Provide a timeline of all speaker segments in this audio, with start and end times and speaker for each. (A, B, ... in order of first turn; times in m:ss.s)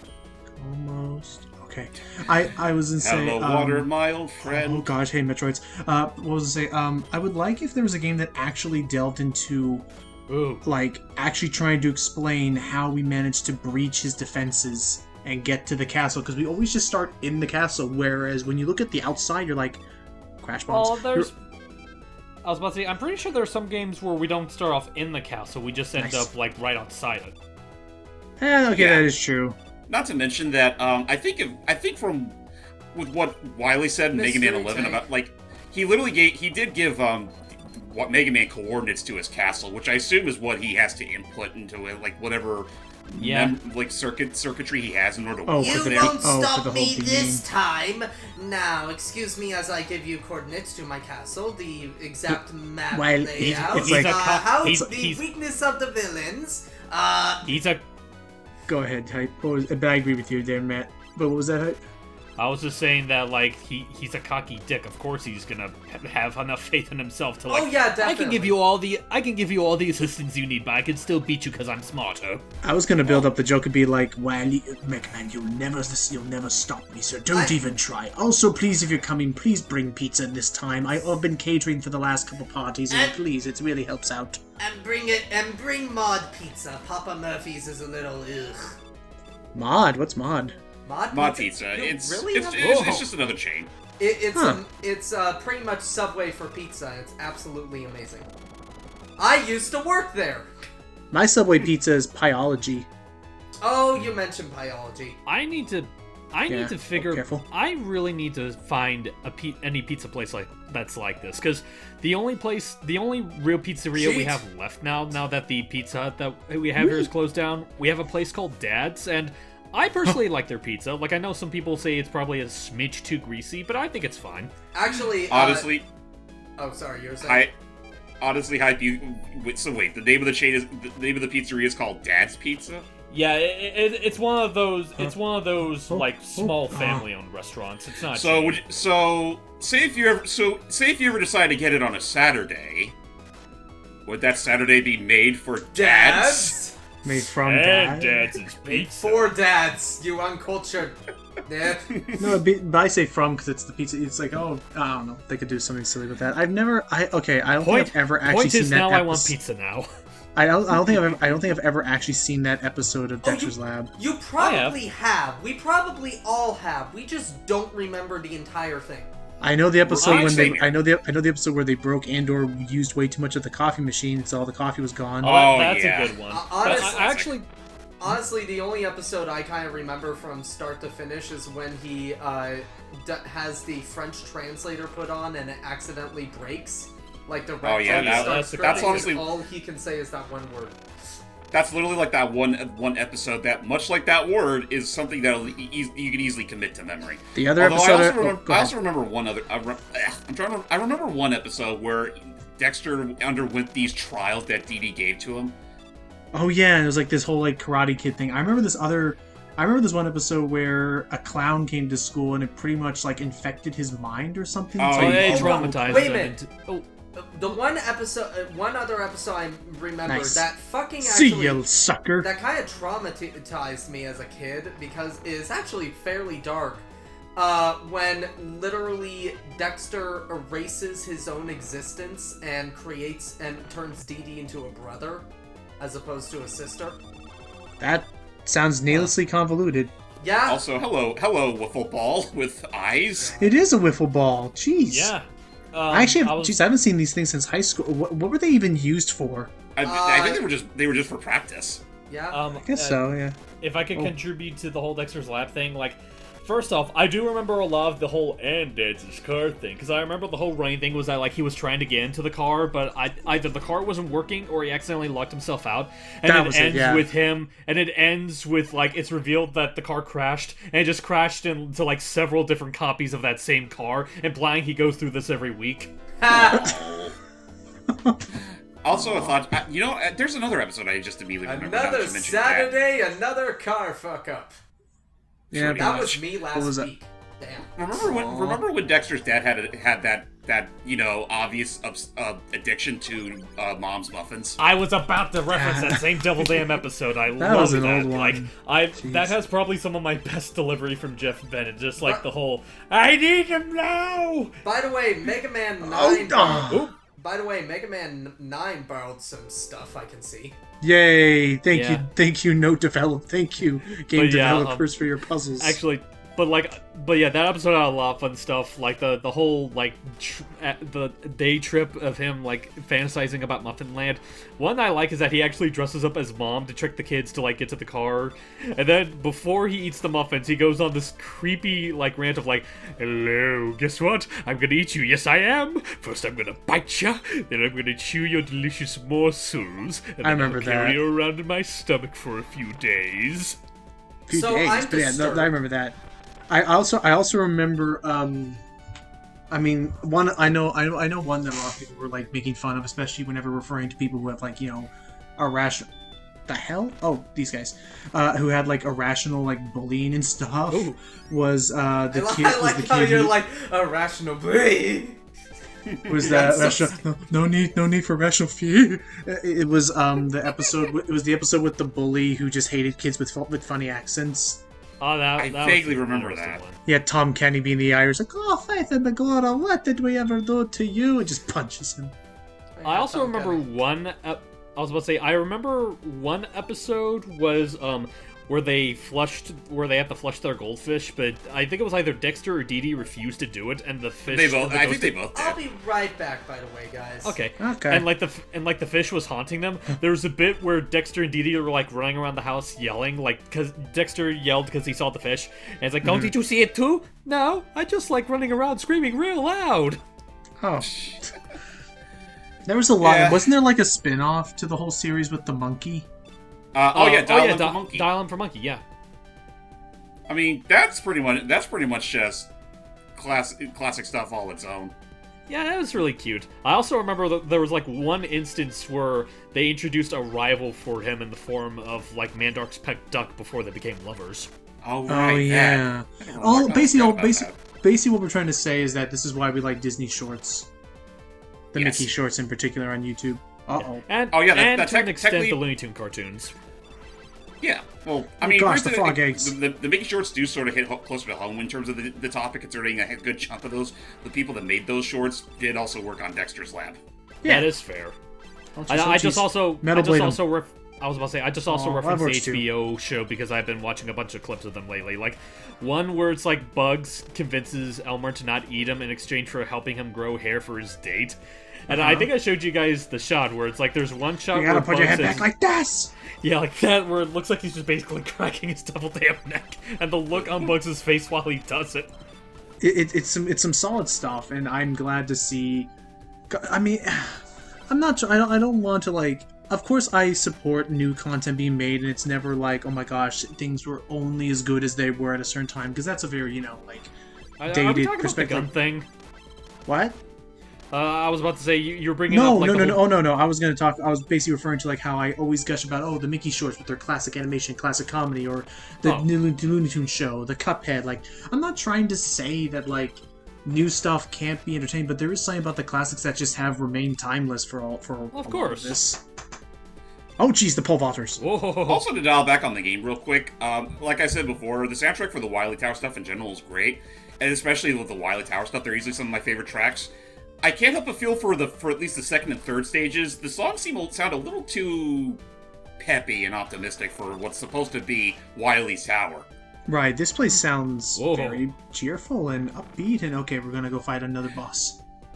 0:00.6-0:03.9 A
0:03.0-0:04.8 B
0:04.4-0:09.9 A
0:10.3-0:10.6 C
0:10.6-0:19.8 A
0:20.4-0:21.3 A
0:20.7-0:21.3 C
0:22.4-0:27.4 C
0:26.0-0:26.3 A
0:28.4-0:29.6 A
0:28.8-0:29.0 B
0:29.9-0:32.4 B
0:32.9-0:46.3 B
0:34.1-0:35.0 D
0:43.2-0:43.6 C
0:45.5-0:47.4 A
0:45.6-0:57.6 D
0:52.9-0:54.2 A
0:53.4-0:55.2 C
0:57.5-0:57.8 C
0:58.7-1:01.8 A
1:02.4-1:12.4 C
1:07.5-1:08.6 D
1:12.6-1:24.4 A
1:17.3-1:17.6 D
1:22.9-1:23.2 D
1:24.6-1:28.8 D
1:29.5-1:30.6 A
1:30.9-1:33.0 D
1:31.1-1:33.7 B
1:32.6-1:33.1 C
1:34.0-1:38.3 D
1:34.4-1:34.6 A
1:39.2-1:40.5 D
1:41.1-1:42.9 A
1:43.6-1:45.2 D
1:45.3-2:04.5 C
1:46.5-1:47.4 A
1:54.0-1:54.4 D
1:56.8-1:57.1 A
2:04.7-2:05.7 D
2:05.3-2:05.8 B
2:06.6-2:07.5 D
2:07.2-2:07.5 B
2:08.2-2:12.8 B
2:13.1-2:18.6 C
2:15.9-2:17.0 A
2:18.1-2:23.0 B
2:24.1-2:26.6 B
2:25.8-2:26.8 D
2:27.0-2:28.4 A
2:27.4-2:29.4 C
2:28.7-2:31.9 D
2:31.9-2:32.2 B
2:32.2-2:39.4 A
2:37.6-2:39.9 C
2:40.4-2:43.9 A
2:43.2-2:49.1 D
2:44.4-2:44.8 C
2:49.4-2:55.5 A
2:49.9-2:50.7 B
2:50.0-2:50.6 C
2:55.2-2:57.5 C
2:55.2-2:56.2 B
2:56.3-2:57.3 D
2:58.0-3:10.8 D
3:07.6-3:09.3 B
3:07.9-3:09.2 C
3:11.5-3:25.6 B
3:17.4-3:18.7 A
3:26.3-3:36.1 A
3:34.8-3:35.6 B
3:34.9-3:36.9 C
3:35.3-3:36.4 D
3:37.2-3:41.6 D
3:40.1-3:40.5 A
3:41.0-3:42.3 A
3:42.2-3:55.3 D
3:55.8-3:57.0 D
3:57.8-3:59.9 A
4:00.2-4:00.6 D
4:00.5-4:03.3 B
4:03.2-4:03.6 D
4:03.4-4:05.1 A
4:04.9-4:06.6 C
4:05.9-4:09.5 A
4:09.8-4:11.8 B
4:09.8-4:10.5 D
4:12.1-4:12.4 D
4:12.3-4:13.0 C
4:12.6-4:13.4 A
4:13.6-4:35.9 C
4:26.2-4:27.1 A
4:36.2-4:36.8 D
4:36.3-4:37.2 B
4:37.9-4:38.2 A
4:38.8-4:42.7 B
4:38.9-4:39.4 A
4:41.4-4:44.6 D
4:45.5-4:46.2 B
4:45.5-4:46.9 A
4:45.8-4:47.7 D
4:47.8-4:54.6 B
4:48.0-4:48.6 A
4:54.6-5:04.5 C
4:55.5-4:56.6 A
4:57.4-4:59.3 A
5:04.6-5:10.6 D
5:05.8-5:06.9 A
5:06.7-5:06.9 C
5:10.8-5:15.8 A
5:11.7-5:12.0 C
5:14.0-5:14.9 C
5:15.6-5:43.6 C
5:40.2-5:41.0 A
5:44.3-5:46.0 A
5:44.3-5:45.5 D
5:46.5-5:48.6 A
5:49.5-5:55.9 A
5:56.5-6:03.4 A
6:00.7-6:01.0 C
6:02.1-6:05.2 D
6:05.9-6:06.7 B
6:06.1-6:14.6 A
6:06.2-6:07.0 D
6:15.0-6:16.8 C
6:15.4-6:16.6 B
6:16.9-6:22.1 A
6:22.8-6:23.7 D
6:22.8-6:35.2 C
6:34.3-6:35.6 B
6:35.3-6:37.4 D
6:37.2-6:50.0 C
6:37.6-6:38.1 A
6:46.0-6:46.3 A
6:50.6-6:51.3 A
6:50.8-6:51.3 B
6:52.7-6:56.1 A
6:53.0-6:53.5 B
6:56.7-6:58.1 B
6:56.9-6:58.8 C
7:00.3-7:02.5 B
7:03.2-7:04.9 B
7:05.5-7:14.5 C
7:14.8-7:17.6 B
7:15.1-7:20.7 A
7:21.7-7:24.0 A
7:21.8-7:22.1 B
7:24.1-7:26.5 C
7:24.3-7:25.6 B
7:27.6-7:37.0 B
7:28.4-7:29.6 A
7:37.4-7:37.7 A
7:37.4-7:38.2 C
7:38.8-7:40.4 A
7:38.9-7:55.5 C
7:41.7-7:42.7 A
7:51.9-7:52.3 A
7:54.5-7:56.1 A
7:56.4-8:02.1 C
8:02.8-8:05.9 A
8:06.5-8:17.1 A
8:17.6-8:19.1 C
8:17.7-8:18.7 A
8:19.9-8:20.2 A
8:20.9-8:23.1 C
8:22.3-8:39.2 A
8:29.0-8:29.3 C
8:38.3-8:39.0 C
8:40.4-8:41.4 A
8:41.4-8:42.1 C
8:41.9-8:50.1 B
8:50.6-8:55.4 B
8:56.0-8:59.5 B
8:59.9-9:05.0 A
9:01.2-9:01.6 C